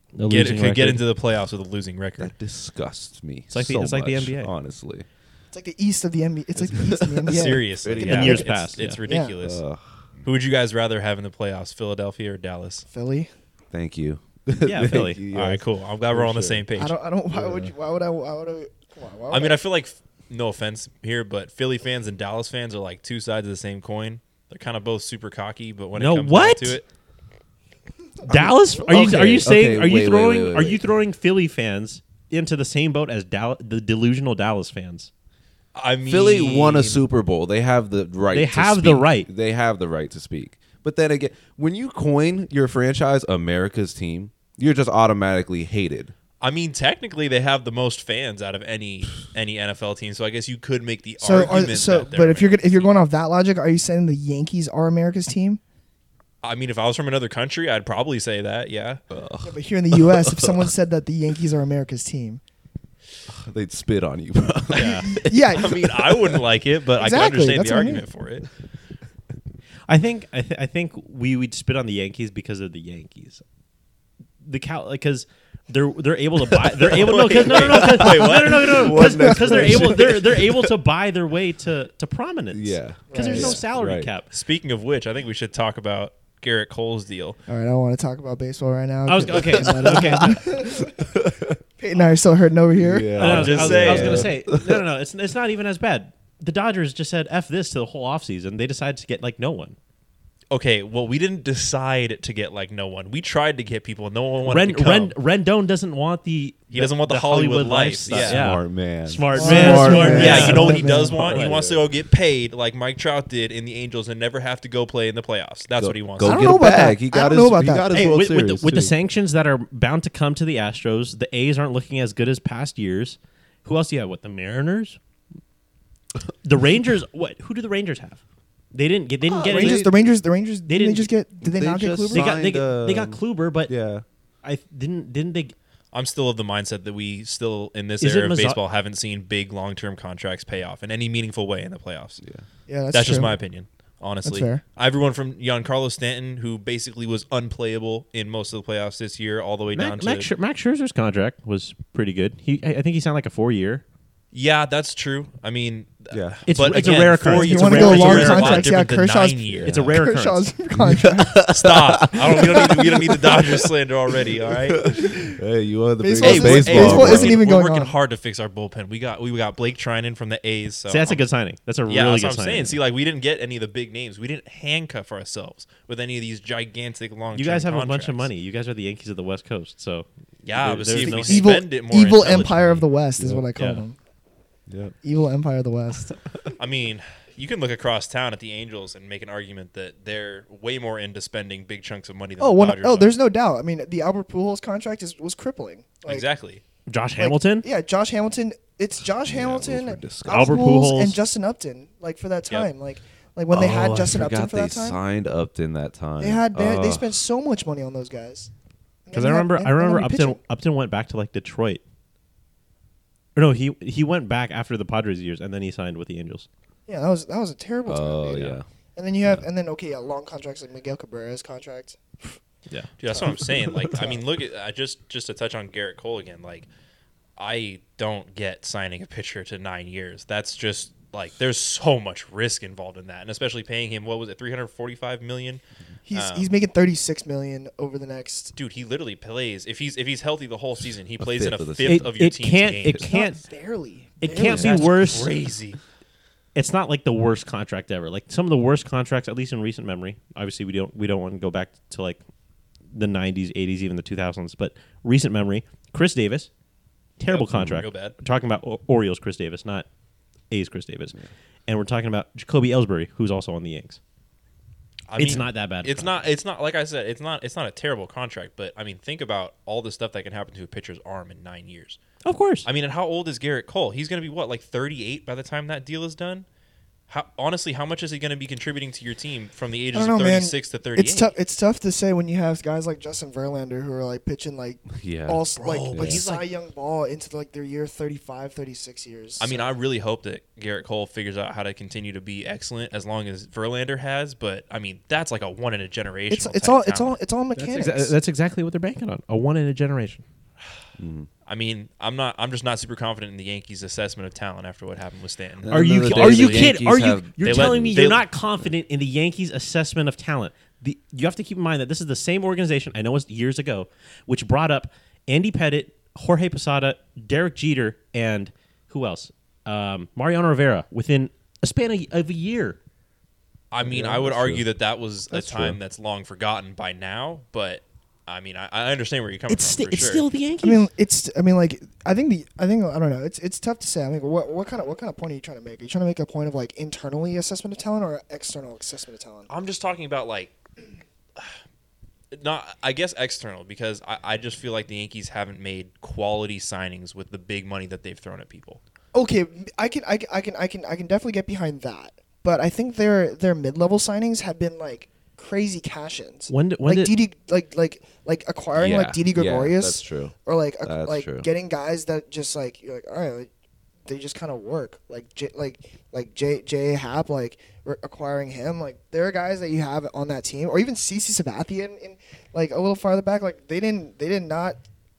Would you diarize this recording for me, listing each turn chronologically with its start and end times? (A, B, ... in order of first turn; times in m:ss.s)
0:00.1-0:01.0 A
0:00.3-0:02.3 B
0:02.2-0:05.0 C
0:03.5-0:04.5 A
0:05.5-0:08.5 D
0:06.6-0:08.5 C
0:07.2-0:09.6 B
0:08.0-0:09.0 A
0:09.1-0:09.3 D
0:09.4-0:10.0 C
0:10.2-0:12.8 B
0:12.9-0:13.3 D
0:13.7-0:16.7 C
0:14.6-0:15.2 A
0:15.3-0:17.0 B
0:16.8-0:19.6 D
0:17.3-0:17.7 C
0:19.3-0:26.8 B
0:25.9-0:26.8 A
0:28.2-0:29.4 D
0:28.2-0:30.8 C
0:28.3-0:35.1 A
0:35.7-0:37.0 B
0:36.1-0:46.1 C
0:38.3-0:39.3 A
0:46.4-0:52.9 B
0:51.2-0:55.6 D
0:56.4-0:59.0 B
0:59.1-1:00.7 C
0:59.4-1:02.4 D
1:03.3-1:06.4 C
1:04.7-1:08.5 B
1:05.0-1:05.8 D
1:07.0-1:08.0 D
1:09.9-1:13.4 A
1:14.4-1:24.3 A
1:16.6-1:20.7 C
1:16.8-1:19.0 B
1:19.3-1:19.9 D
1:22.5-1:24.1 C
1:23.1-1:23.6 D
1:24.3-1:27.4 B
1:27.5-1:31.2 D
1:29.1-1:30.4 A
1:29.6-1:31.6 C
1:31.8-1:34.3 D
1:32.7-1:34.8 C
1:33.2-1:39.8 A
1:33.2-1:34.3 B
1:40.5-1:45.1 B
1:44.4-1:51.6 A
1:46.7-1:48.4 B
1:48.0-1:50.8 C
1:49.3-1:51.3 D
1:49.8-1:56.5 B
1:51.3-1:51.8 C
1:55.8-1:58.9 C
1:56.2-1:58.2 D
1:57.9-2:05.0 A
2:06.4-2:08.2 A
2:08.7-2:09.8 A
2:09.2-2:10.1 C
2:09.4-2:12.3 D
2:10.7-2:11.1 A
2:11.4-2:14.0 C
2:12.1-2:13.7 A
2:14.4-2:15.5 A
2:15.9-2:22.2 B
2:18.0-2:18.6 A
2:22.2-2:22.4 C
2:22.7-2:23.4 D
2:22.9-2:30.3 B
2:24.2-2:24.6 D
2:29.7-2:33.8 A
2:34.3-2:39.8 B
2:36.1-2:36.4 C
2:36.5-2:38.7 A
2:37.2-2:41.5 D
2:39.5-2:39.8 C
2:39.6-2:40.5 A
2:40.7-2:43.6 C
2:41.4-2:44.9 B
2:42.3-2:43.3 D
2:44.6-2:47.4 C
2:45.0-2:45.4 D
2:46.0-2:47.9 D
2:46.2-2:51.2 B
2:50.9-2:52.8 A
2:51.9-2:58.3 B
2:57.3-3:01.5 A
3:00.4-3:02.8 B
3:01.0-3:04.0 D
3:03.2-3:03.5 C
3:03.6-3:03.8 A
3:04.7-3:05.0 C
3:05.0-3:06.2 D
3:06.6-3:13.2 B
3:12.4-3:16.2 D
3:16.0-3:16.6 B
3:16.9-3:17.6 A
3:17.2-3:25.0 D
3:19.2-3:20.6 C
3:20.2-3:21.2 A
3:23.5-3:27.1 C
3:26.2-3:28.5 D
3:29.0-3:30.4 D
3:29.1-3:31.8 A
3:33.4-3:36.5 A
3:36.9-3:42.4 D
3:37.8-3:38.6 C
3:43.0-3:46.7 B
3:43.1-3:44.2 D
3:43.2-3:44.0 C
3:47.4-3:56.5 B
3:56.0-3:58.5 D
3:58.6-4:03.1 B
4:01.2-4:02.1 C
4:01.8-4:03.4 A
4:03.0-4:05.1 D
4:04.2-4:05.3 A
4:04.4-4:04.9 C
4:04.5-4:05.8 B
4:06.5-4:12.2 A
4:12.9-4:16.5 A
4:17.2-4:19.8 A
4:17.2-4:18.2 B
4:20.5-4:24.0 A
4:25.1-4:32.0 B
4:25.2-4:26.1 A
4:32.2-4:32.7 A
4:32.6-4:36.4 B
4:37.1-4:41.3 B
4:39.9-4:49.7 D
4:44.9-4:46.2 C
4:45.6-4:46.5 B
4:49.4-4:57.2 B
4:56.3-4:58.2 D
4:57.5-5:00.2 A
5:01.0-5:01.3 C
5:01.4-5:06.8 B
5:05.6-5:08.7 C
5:05.7-5:22.8 A
5:07.4-5:08.2 B
5:23.7-5:30.2 B
5:23.8-5:24.6 C
5:25.3-5:25.8 C
5:29.5-5:30.9 A
5:30.6-5:39.5 D
5:39.5-5:40.5 B
5:42.3-5:48.8 B
5:49.1-6:03.5 D
5:56.5-5:57.1 A
5:58.7-6:01.5 C
6:04.0-6:14.8 D